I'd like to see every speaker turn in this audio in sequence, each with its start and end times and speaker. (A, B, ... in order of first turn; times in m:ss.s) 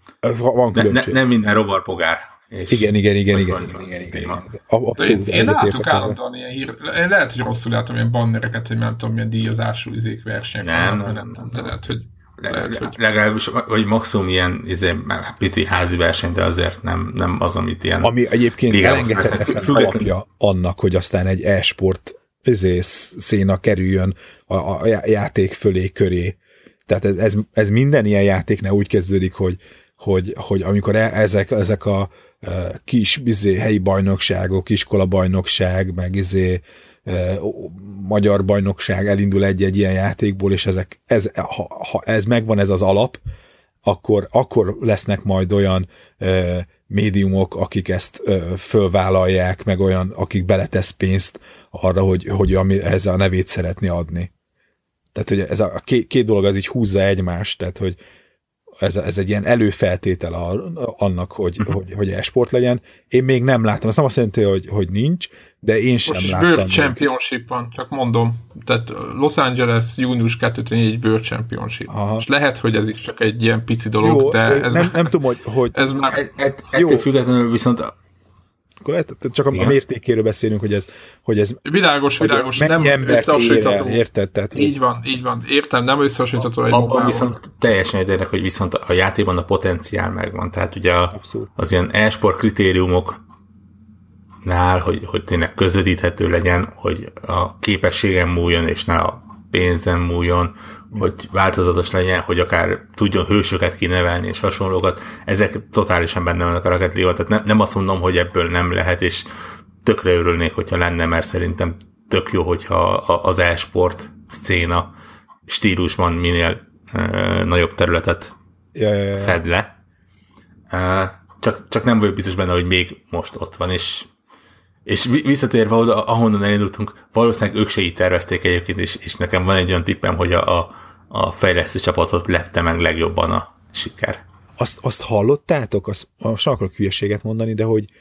0:00.2-0:01.2 A
0:00.7-0:04.4 B
0:02.7-0:06.2 A
0:05.0-0:13.0 C
0:10.6-0:11.7 B
0:12.4-0:18.1 B
0:18.0-0:43.2 A
0:18.7-0:20.1 B
0:43.8-0:54.3 A
0:55.1-0:58.0 A
0:58.8-1:07.0 A
1:06.0-1:15.1 C
1:11.9-1:12.2 A
1:14.0-1:15.7 A
1:15.7-1:16.2 C
1:16.1-1:17.9 B
1:16.7-1:17.0 A
1:18.8-1:21.6 A
1:19.5-1:19.8 B
1:21.6-1:24.0 C
1:22.2-1:24.7 A
1:24.5-1:27.3 C
1:26.7-1:33.2 B
1:31.1-1:31.5 A
1:34.4-1:49.3 B
1:49.8-1:54.9 B
1:55.5-1:58.3 B
1:58.7-1:59.4 A
1:59.1-1:59.7 B
2:00.7-2:04.1 B
2:04.8-2:14.2 B
2:14.6-2:17.9 A